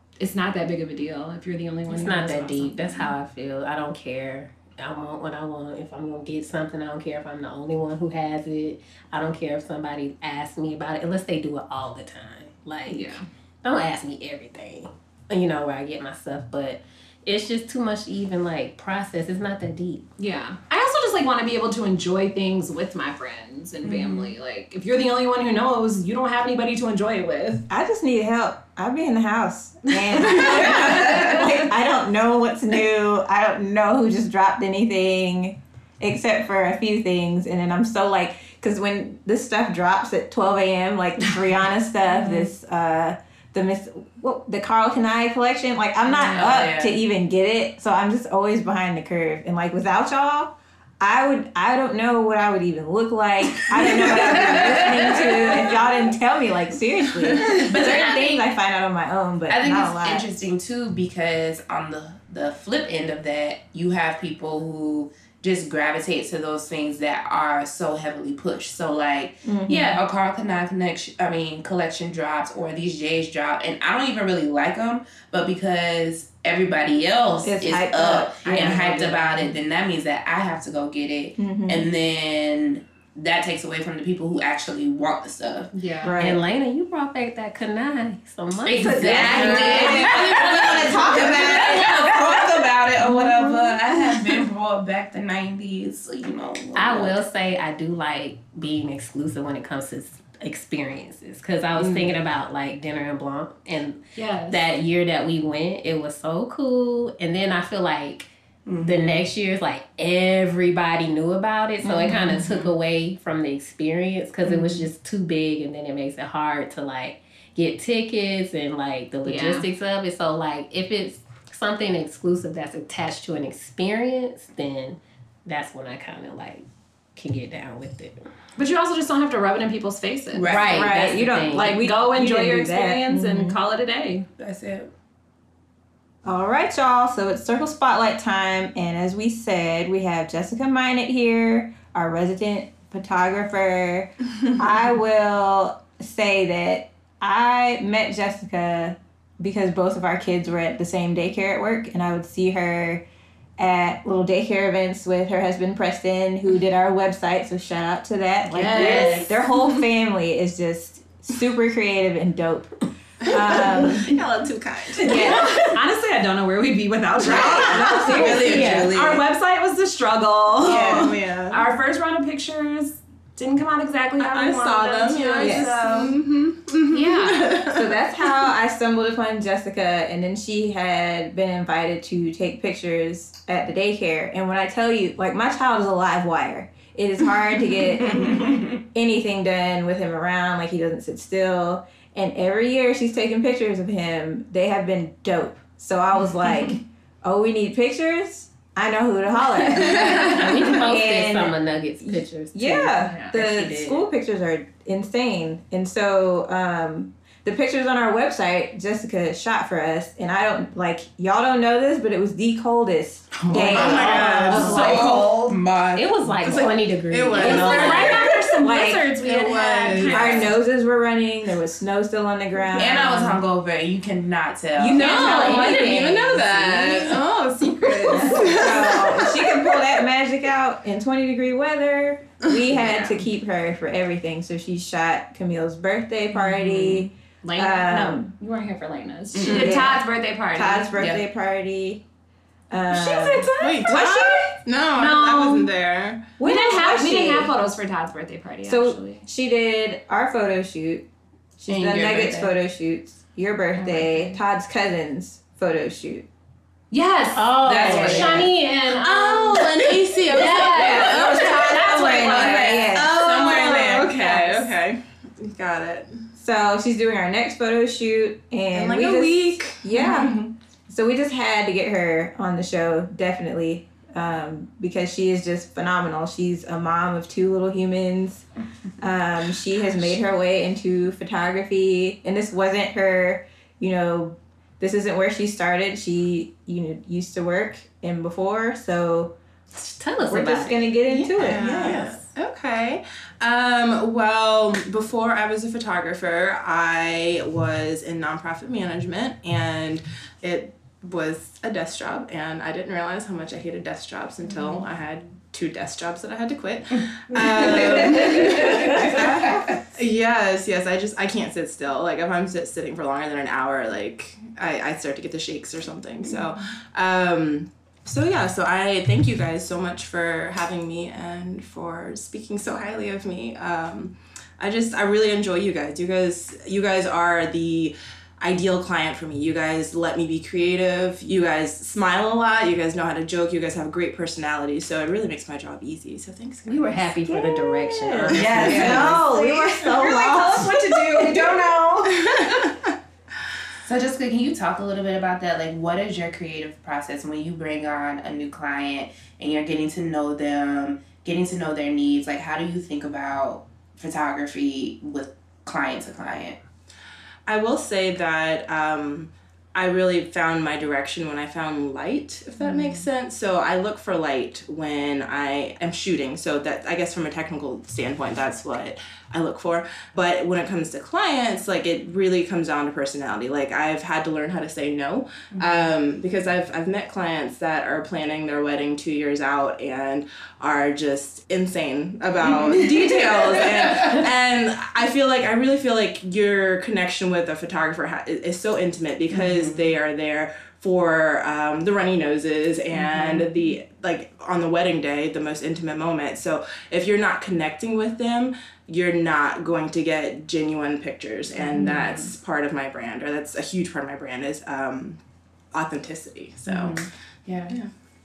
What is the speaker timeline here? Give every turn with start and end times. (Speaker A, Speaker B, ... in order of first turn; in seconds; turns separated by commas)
Speaker A: 0.2-3.1, Speaker B: 1.9-20.1, Speaker A: 12.9-13.2, Speaker A: 20.2-27.6, Speaker C: 23.9-24.3, Speaker C: 27.7-60.2, Speaker A: 29.9-31.6, Speaker D: 31.0-31.3, Speaker D: 46.1-47.0, Speaker A: 46.2-46.5, Speaker D: 53.9-55.8, Speaker D: 57.5-58.5, Speaker D: 59.5-85.7, Speaker C: 69.4-70.0, Speaker C: 77.4-79.3, Speaker A: 78.5-78.8, Speaker C: 81.4-81.9, Speaker A: 85.7-86.2, Speaker C: 86.0-86.4, Speaker B: 86.2-91.0, Speaker A: 88.7-91.5, Speaker D: 88.8-97.2, Speaker C: 88.8-92.4, Speaker C: 93.1-93.6, Speaker B: 96.7-128.2, Speaker A: 104.1-104.7, Speaker D: 108.7-109.2, Speaker C: 111.8-112.3, Speaker A: 112.1-112.5, Speaker A: 114.5-114.8, Speaker A: 119.2-119.7, Speaker A: 128.6-130.6, Speaker D: 130.3-131.1, Speaker C: 130.5-133.6, Speaker B: 130.5-131.8, Speaker A: 131.5-134.3, Speaker D: 134.4-134.9, Speaker C: 136.2-153.0, Speaker C: 153.6-164.2, Speaker A: 158.5-159.4, Speaker E: 158.7-159.8, Speaker D: 158.8-159.3, Speaker E: 163.2-165.3, Speaker A: 165.0-176.1, Speaker C: 165.0-165.6, Speaker C: 167.2-168.9, Speaker D: 167.3-169.2, Speaker B: 168.4-168.9, Speaker E: 170.6-171.6, Speaker C: 170.6-171.1, Speaker D: 170.7-171.1, Speaker E: 174.2-177.9, Speaker C: 175.4-175.8, Speaker A: 176.9-177.6, Speaker C: 177.7-215.3, Speaker D: 188.1-188.7, Speaker E: 199.8-200.4, Speaker B: 199.8-204.1, Speaker A: 203.0-203.3, Speaker E: 213.3-215.0, Speaker D: 213.5-216.9, Speaker B: 214.5-215.0, Speaker A: 214.9-215.2, Speaker B: 215.9-218.1, Speaker E: 216.4-218.4, Speaker C: 217.3-217.9, Speaker A: 217.4-220.5, Speaker C: 218.6-219.1, Speaker E: 219.2-220.5, Speaker C: 220.1-223.4, Speaker D: 222.7-225.6, Speaker C: 224.7-227.2, Speaker E: 224.9-229.6, Speaker B: 225.0-225.9, Speaker A: 227.8-229.0, Speaker C: 228.1-238.3, Speaker A: 232.8-233.2, Speaker A: 236.3-241.0, Speaker D: 239.3-239.8, Speaker C: 239.4-242.0, Speaker D: 241.0-241.2, Speaker C: 242.7-244.6, Speaker A: 242.9-244.1, Speaker B: 243.1-243.8, Speaker E: 243.6-246.3, Speaker A: 244.9-245.7, Speaker C: 246.4-247.5, Speaker A: 246.4-249.2, Speaker C: 248.6-251.1, Speaker C: 251.6-256.3, Speaker D: 251.7-252.5, Speaker E: 251.7-252.3, Speaker A: 253.7-254.4, Speaker A: 256.9-263.1, Speaker B: 257.3-258.6, Speaker D: 257.6-258.5, Speaker E: 258.9-266.2, Speaker C: 260.3-264.7, Speaker D: 261.6-263.0, Speaker C: 266.4-278.5, Speaker E: 268.7-270.5, Speaker C: 279.0-289.4, Speaker B: 289.7-292.2, Speaker C: 290.3-292.0, Speaker E: 291.3-337.3, Speaker D: 304.5-304.7, Speaker D: 307.3-309.8, Speaker C: 307.6-309.8, Speaker B: 336.6-339.2, Speaker C: 337.5-341.7, Speaker E: 338.2-339.2, Speaker D: 338.4-339.1, Speaker A: 338.5-342.5, Speaker E: 342.1-342.9, Speaker D: 343.8-356.6, Speaker E: 357.4-405.2, Speaker D: 375.5-375.9, Speaker D: 382.4-384.2, Speaker D: 389.3-389.9, Speaker D: 392.9-393.5, Speaker D: 401.6-402.3, Speaker E: 405.7-407.0, Speaker D: 406.6-407.7